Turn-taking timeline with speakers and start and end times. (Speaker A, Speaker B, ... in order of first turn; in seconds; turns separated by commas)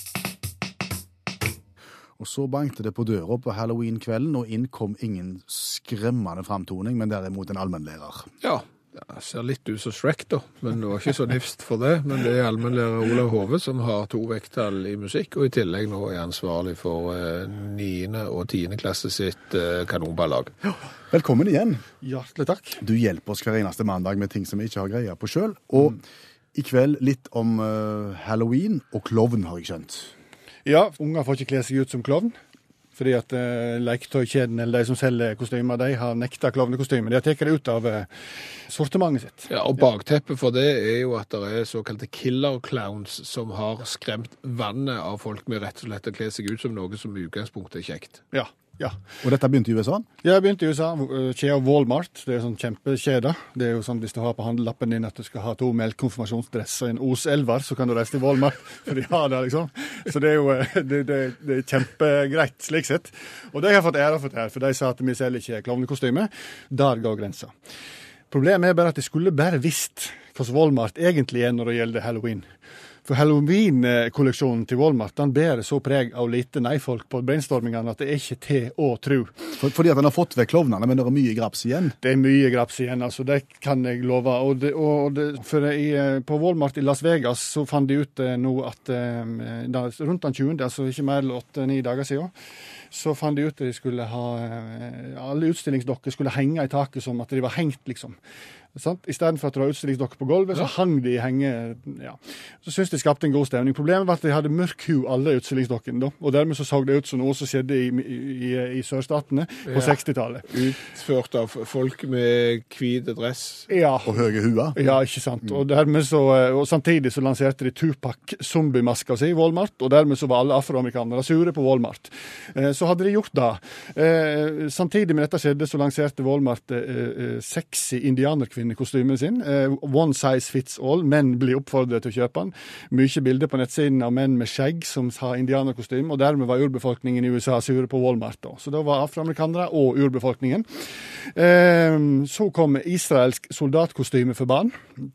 Speaker A: 2.2-8.3, Speaker B: 8.4-20.5, Speaker A: 21.1-21.8, Speaker C: 22.0-22.8, Speaker A: 22.8-26.0, Speaker A: 26.5-30.1, Speaker C: 30.6-32.4, Speaker C: 32.9-38.1, Speaker C: 38.7-39.5, Speaker B: 39.5-48.2, Speaker C: 48.3-49.0, Speaker A: 49.2-50.0, Speaker C: 50.2-67.5, Speaker C: 68.3-72.5, Speaker C: 73.0-79.3, Speaker A: 79.6-82.0, Speaker C: 82.0-92.3, Speaker C: 92.9-98.2, Speaker C: 98.7-110.6, Speaker B: 109.7-113.7, Speaker C: 113.7-114.2, Speaker A: 114.0-114.8, Speaker C: 114.7-144.8